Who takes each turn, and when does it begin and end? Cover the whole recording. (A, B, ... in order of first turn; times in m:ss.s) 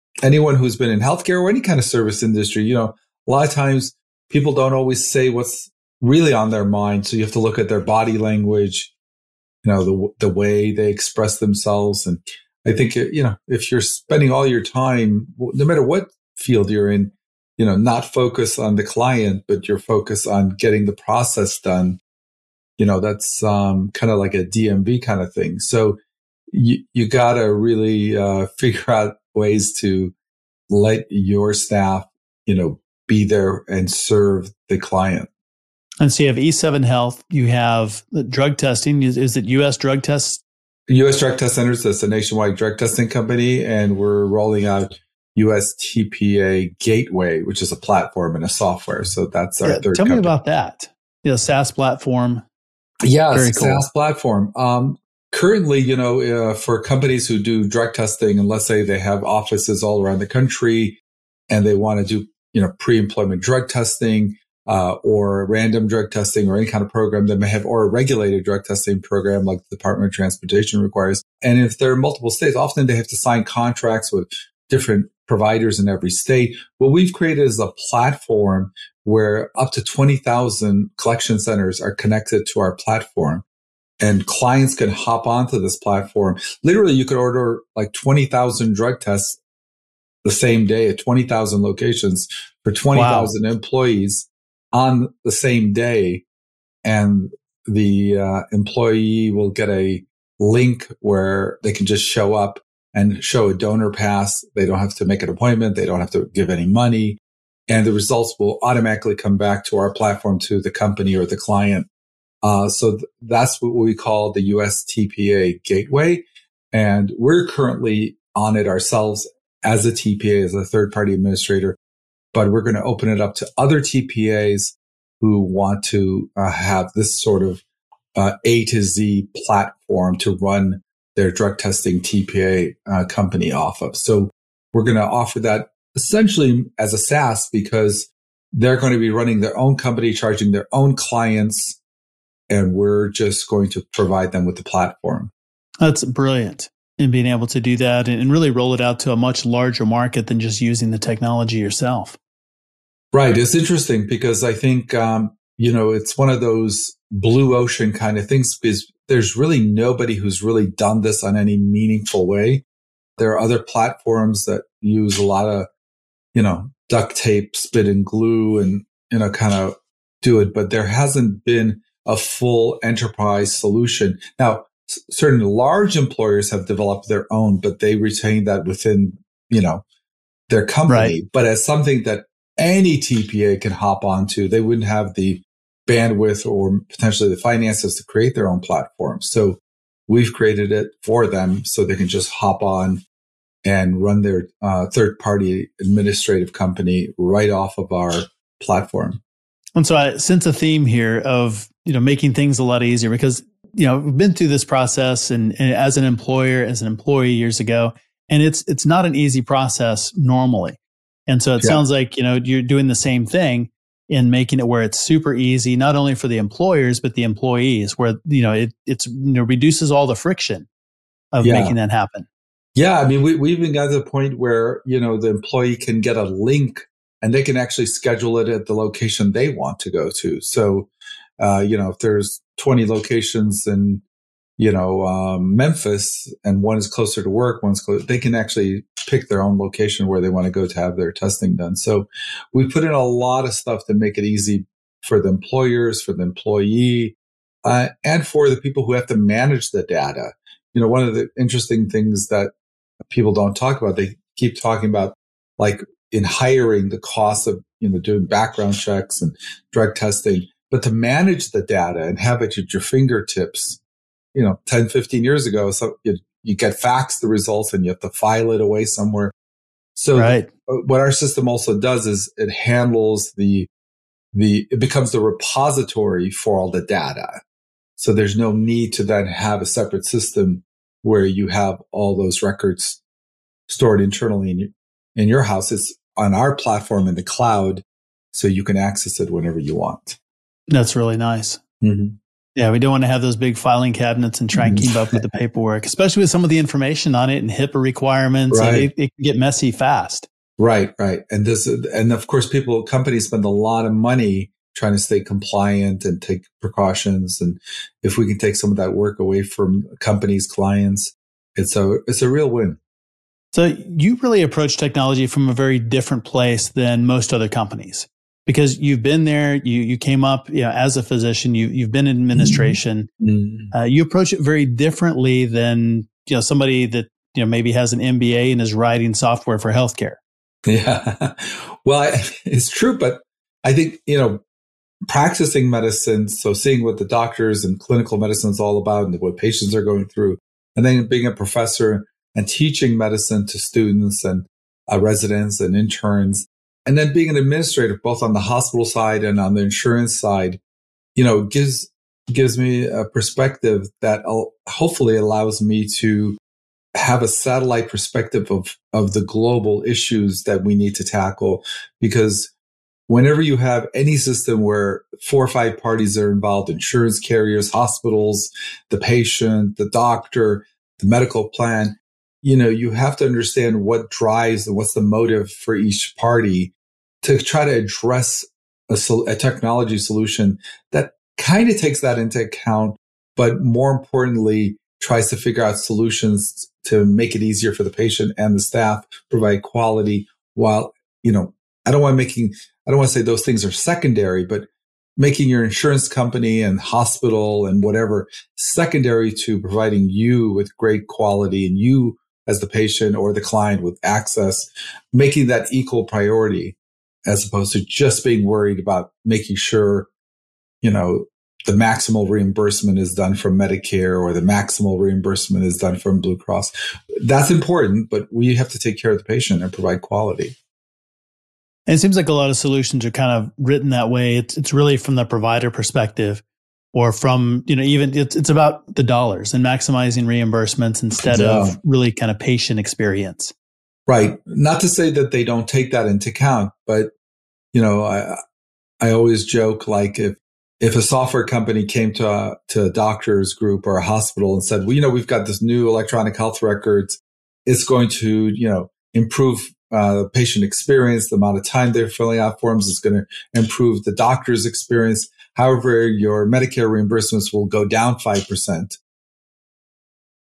0:00.2-0:08.9 A
0:09.6-0:22.0 A
0:22.8-0:26.0 A
0:26.5-0:30.1 A
0:30.7-0:35.3 A
0:36.0-0:40.4 B
0:40.9-0:50.3 A
0:49.6-0:52.4 B
0:53.0-1:01.0 A
0:53.3-0:53.8 B
1:01.5-1:23.4 A
1:24.0-1:29.4 A
1:30.2-1:36.2 A
1:32.9-1:33.3 B
1:36.8-1:51.9 A
1:52.4-2:01.8 A
2:02.3-2:07.6 A
2:08.1-2:21.8 A
2:22.5-2:25.3 A
2:25.8-2:32.2 B
2:33.1-2:42.6 A
2:43.2-2:45.7 A
2:46.3-2:59.8 A
3:00.5-3:13.0 A
3:00.9-3:01.1 B
3:13.6-3:19.2 A
3:19.7-3:40.7 B
3:41.3-3:42.3 B
3:41.4-3:41.7 A
3:42.7-3:54.0 A
3:54.6-4:12.5 A
4:13.0-4:23.8 A
4:24.3-4:29.3 A
4:30.0-4:33.7 A
4:30.2-4:30.5 B
4:34.3-4:37.4 A
4:38.0-4:43.0 A
4:43.7-4:50.2 A
4:50.7-4:51.6 B
4:51.8-4:52.2 A
4:52.6-5:00.3 B
4:54.6-4:55.2 A
4:58.5-4:58.9 A
5:00.6-5:12.8 A
5:13.5-5:23.1 B
5:22.4-5:23.7 A
5:23.7-5:30.2 B
5:30.6-5:34.4 A
5:35.1-5:50.6 A
5:51.2-5:56.4 A
5:56.9-6:02.5 A
6:03.1-6:50.1 A
6:50.8-7:00.6 A
7:01.9-7:13.5 B
7:11.2-7:11.8 A
7:14.1-7:17.1 A
7:17.7-7:18.4 A
7:19.0-7:39.0 A